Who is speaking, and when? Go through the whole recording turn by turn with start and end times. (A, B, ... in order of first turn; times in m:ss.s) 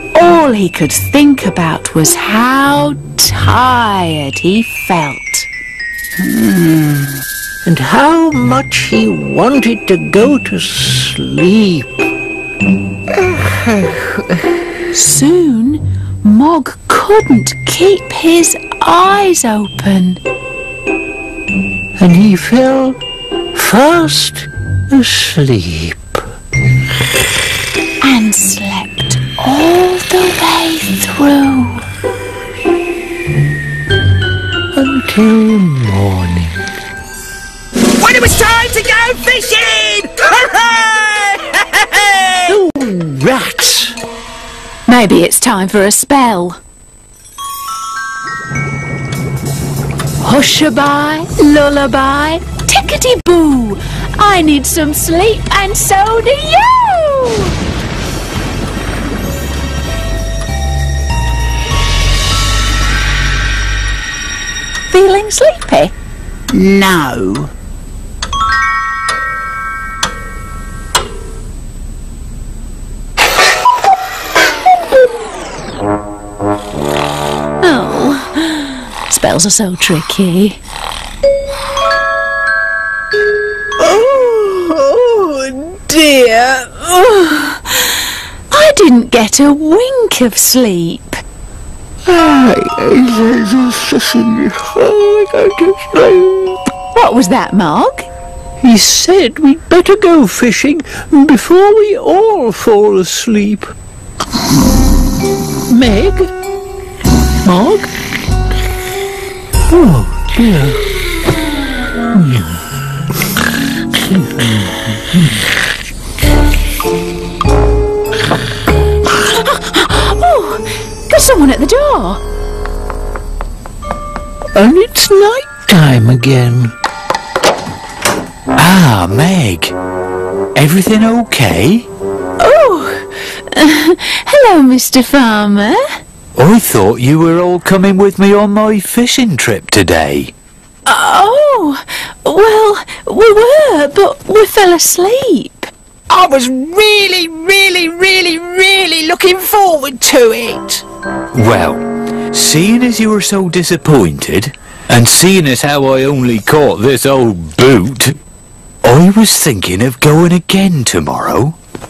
0:00.1-0:05.5 A
0:06.2-0:07.2 B
0:07.6-0:12.0 C
0:14.9-0:20.2 A
0:22.0-0:23.0 C
0:23.6-0:26.1 C
0:28.0-0:31.8 A
0:34.7-0:36.7 C
0:38.0-0:42.5 B
0:42.5-0:44.0 C
0:44.9-0:46.6 A
0:50.2-0:57.6 A
1:04.9-1:05.9 A
1:06.5-1:07.5 B
1:17.6-1:20.6 A
1:23.8-1:27.4 C
1:27.7-1:28.0 A
1:28.5-1:31.2 A
1:32.1-1:36.6 C
1:36.9-1:38.1 A
1:38.6-1:43.7 C
1:45.7-1:46.3 C
1:47.4-1:47.9 C
1:49.7-1:50.9 C
1:52.1-1:52.6 C
1:53.9-1:55.4 C
1:59.1-2:02.2 A
2:04.6-2:06.7 C
2:08.6-2:09.7 D
2:10.6-2:11.9 D
2:12.4-2:15.8 A
2:16.4-2:20.3 D
2:20.9-2:25.7 A
2:26.1-2:30.8 B
2:31.3-2:38.2 D
2:38.8-2:41.6 D